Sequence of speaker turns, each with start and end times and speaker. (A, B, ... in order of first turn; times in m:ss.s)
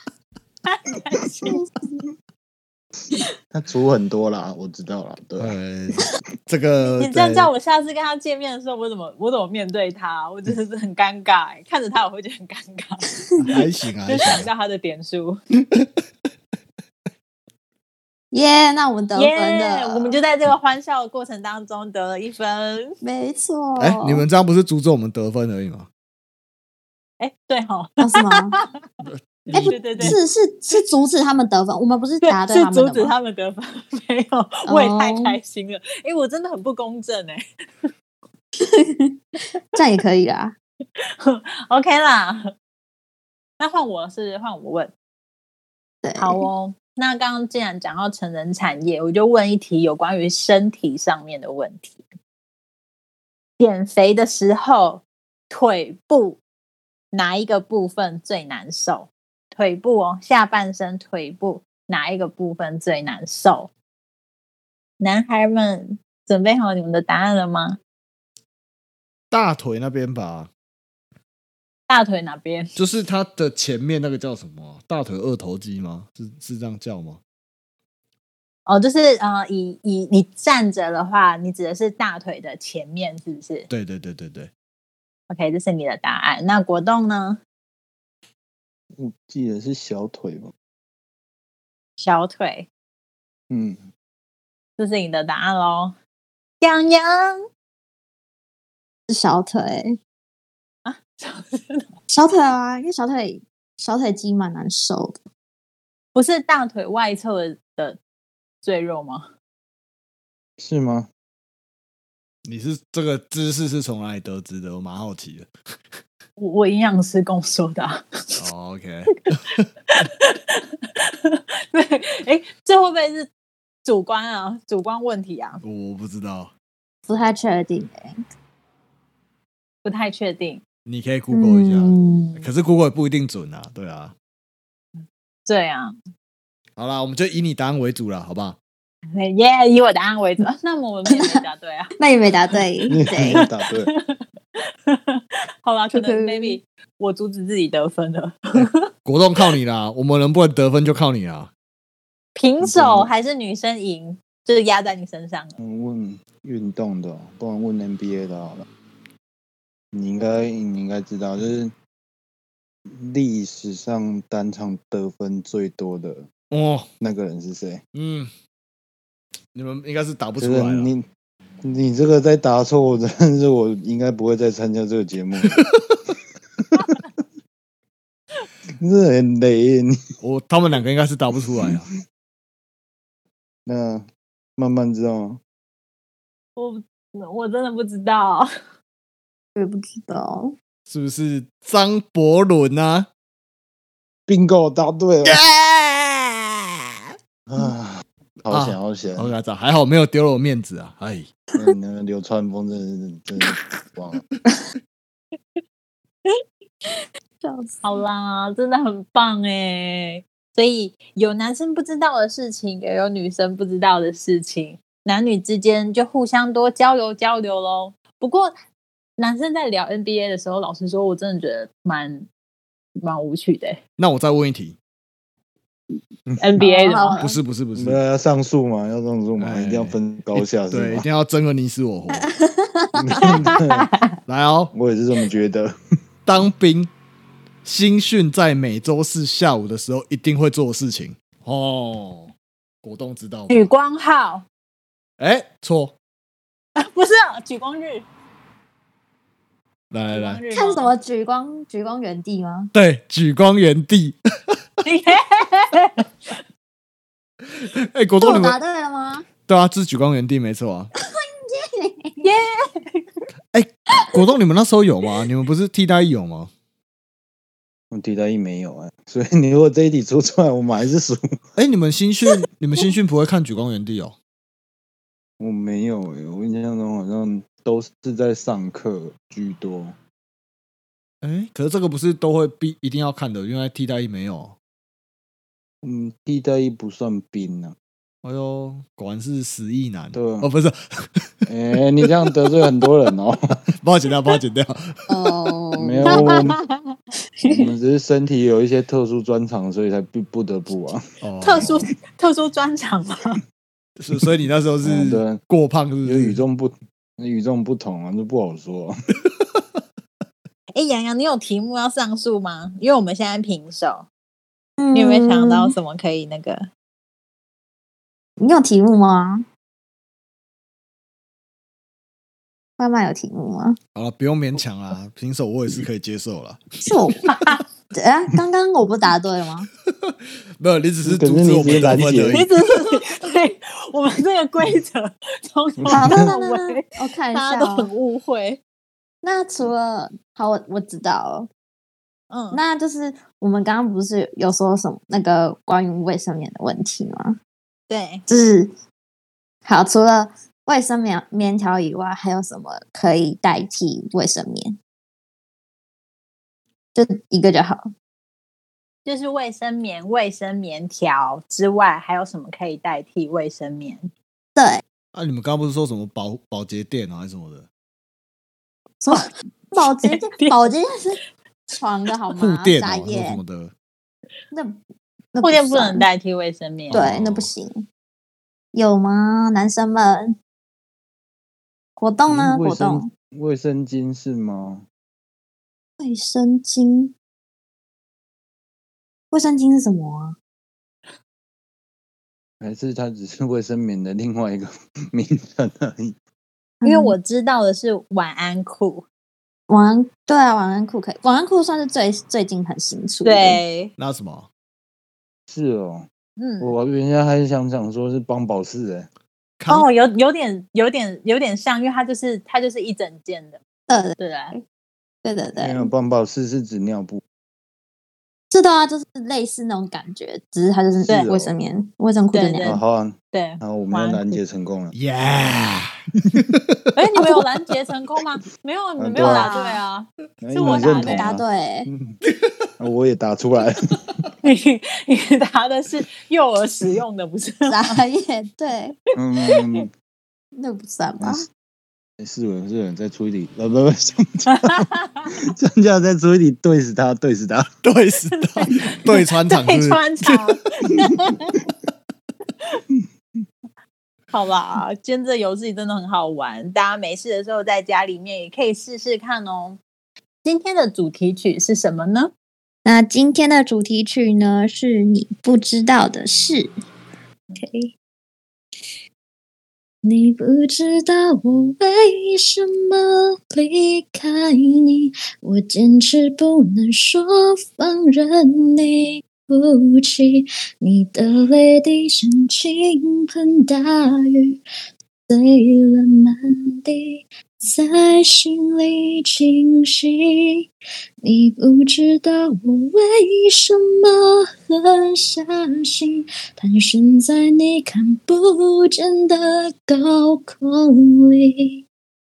0:00.6-0:01.6 A
0:01.4-0:01.7 B
0:03.5-0:05.5 C
0:05.4-0:07.5 D
0:06.9-0:13.1 A
0:13.4-0:14.5 D
0:14.1-0:15.4 A
0:18.3-0:20.2 B
0:19.1-0:23.0 A
0:23.0-0:24.2 B
0:23.8-0:25.9 D
0:27.2-0:28.7 A
0:28.0-0:28.6 B
0:29.0-0:30.2 D
0:29.5-0:33.1 B
0:29.7-0:30.2 A
0:32.2-0:37.9 A
0:34.7-0:35.4 B
0:38.6-0:39.2 B
0:39.7-0:40.6 B
0:41.2-0:42.5 A
0:43.6-0:44.9 A
0:46.0-0:46.4 B
0:46.2-0:52.0 A
0:53.6-0:56.4 A
0:57.1-1:03.7 A
1:05.0-1:07.8 A
1:09.3-1:10.5 D
1:11.9-1:12.8 A
1:12.8-1:17.2 D
1:18.6-1:23.7 A
1:23.7-1:24.5 D
1:25.3-1:27.4 A
1:29.0-1:30.5 C
1:32.0-1:32.7 A
1:33.5-1:33.9 C
1:34.8-1:35.9 A
1:36.6-1:37.4 A
1:39.1-1:40.0 B
1:40.8-1:41.9 A
1:42.1-1:45.2 B
1:46.1-1:48.0 A
1:48.6-1:49.3 A
1:50.6-1:51.1 C
1:52.4-1:55.5 D
1:56.4-1:58.4 A
1:58.4-1:59.7 D
1:59.9-2:03.3 A
2:03.8-2:05.6 A
2:05.6-2:06.5 D
2:07.1-2:08.2 B
2:09.8-2:10.6 A
2:10.8-2:14.1 D
2:11.3-2:12.4 B
2:15.4-2:16.0 A
2:16.8-2:18.6 D
2:19.1-2:21.9 A
2:21.1-2:21.4 B
2:22.0-2:23.4 B
2:22.9-2:23.9 C
2:23.1-2:24.2 A
2:24.9-2:28.8 A
2:25.9-2:26.6 B
2:28.5-2:31.5 D
2:32.3-2:35.6 A
2:32.6-2:33.1 C
2:35.6-2:38.7 C
2:39.9-2:41.7 C
2:42.9-2:46.3 C
2:46.5-2:46.9 D
2:47.0-2:47.8 C
2:47.9-2:48.3 D
2:49.5-2:50.9 D
2:50.4-2:51.0 C
2:51.6-2:55.6 C
2:55.5-2:56.0 D
2:58.8-3:00.0 C
3:00.2-3:01.9 D
3:01.6-3:01.9 C
3:03.6-3:05.4 C
3:06.6-3:08.5 A
3:09.5-3:10.5 B
3:10.9-3:13.1 D
3:14.3-3:15.4 C
3:15.2-3:16.7 D
3:17.5-3:19.3 C
3:18.5-3:21.3 D
3:21.5-3:24.2 C
3:27.4-3:27.8 B
3:27.8-3:38.5 A
3:39.2-3:42.3 A
3:43.0-3:43.8 A
3:44.0-3:44.8 D
3:46.3-3:46.6 C
3:46.4-3:47.2 A
3:46.6-3:47.4 B
3:47.2-3:48.0 D
3:47.8-3:51.0 C
3:49.4-3:52.3 D
3:52.1-3:53.4 B
3:52.9-3:53.9 C
3:53.4-3:54.1 A
3:54.3-3:54.7 D
3:54.7-3:55.7 C
3:56.2-3:56.9 D
3:57.6-4:03.7 D
4:03.5-4:04.4 A
4:05.2-4:05.9 D
4:06.8-4:08.0 A
4:09.9-4:10.4 D
4:10.1-4:10.9 A
4:10.5-4:12.7 B
4:12.7-4:14.6 D
4:14.8-4:16.0 A
4:17.5-4:18.6 D
4:18.2-4:19.2 B
4:19.5-4:20.9 D
4:21.0-4:22.2 B
4:22.2-4:23.1 A
4:23.5-4:26.5 D
4:27.9-4:31.4 C
4:31.6-4:34.2 D
4:35.4-4:40.0 C
4:41.2-4:44.5 D
4:45.8-4:47.8 C
4:48.2-4:51.5 D
4:50.1-4:50.5 C
4:51.5-4:53.6 C
4:53.8-4:54.9 D
4:55.1-4:56.4 B
4:55.8-4:56.6 C
4:56.1-4:57.0 A
4:57.5-5:01.0 C
5:01.2-5:01.8 D
5:01.4-5:03.4 A
5:04.0-5:06.4 D
5:04.8-5:05.4 C
5:06.0-5:09.0 C
5:10.7-5:14.1 A
5:14.8-5:15.7 B
5:14.9-5:16.7 A
5:18.4-5:19.4 B
5:22.8-5:23.8 B
5:23.9-5:26.8 D
5:26.8-5:29.7 B
5:27.3-5:27.6 A
5:29.9-5:32.5 D
5:31.0-5:32.4 C
5:32.3-5:38.6 A
5:35.8-5:36.3 C
5:35.9-5:37.9 B
5:39.2-5:41.5 B
5:42.3-5:42.6 A
5:42.5-5:47.4 B
5:47.9-5:48.2 A
5:48.3-5:48.7 B
5:49.6-5:54.8 B
5:56.9-5:57.9 B
5:59.0-6:04.1 A
6:04.6-6:04.8 B
6:05.1-6:07.7 D
6:09.0-6:13.4 B
6:10.0-6:10.7 A
6:12.4-6:13.7 D
6:14.5-6:14.8 B
6:15.3-6:16.0 B
6:15.4-6:17.0 A
6:16.9-6:17.5 D
6:16.9-6:17.8 B
6:18.7-6:20.4 B
6:22.0-6:23.1 B
6:22.3-6:24.8 C
6:26.0-6:27.1 B
6:29.3-6:30.4 B
6:32.6-6:36.2 C
6:36.8-6:37.2 B
6:36.8-6:39.0 A
6:39.7-6:43.6 B
6:43.2-6:43.9 A
6:44.0-6:44.5 D
6:45.5-6:46.1 C
6:46.4-6:46.7 A
6:46.6-6:49.1 C
6:49.6-6:49.9 D
6:49.7-6:53.6 A
6:53.9-6:54.6 B
6:54.2-6:54.5 A
6:55.2-6:55.9 B
6:55.6-6:57.2 C
6:58.5-7:02.8 B
7:01.0-7:01.5 C
7:02.3-7:02.8 A
7:02.6-7:04.9 C
7:03.3-7:04.4 A
7:04.9-7:06.8 D
7:07.0-7:11.3 A
7:09.0-7:09.5 C
7:09.2-7:09.8 B
7:10.4-7:12.2 C
7:10.6-7:11.9 B
7:12.8-7:14.0 C
7:14.4-7:18.0 A
7:17.7-7:19.0 B
7:19.1-7:19.9 C
7:20.6-7:21.4 B
7:21.2-7:21.5 C
7:22.2-7:27.7 C
7:24.5-7:25.3 A
7:27.8-7:30.5 D
7:28.3-7:31.6 A
7:34.3-7:39.8 A
7:40.4-7:42.3 A
7:42.8-7:46.7 B
7:47.6-7:47.9 B
7:50.0-8:04.6 B
8:05.3-8:10.7 B
8:11.2-8:21.8 B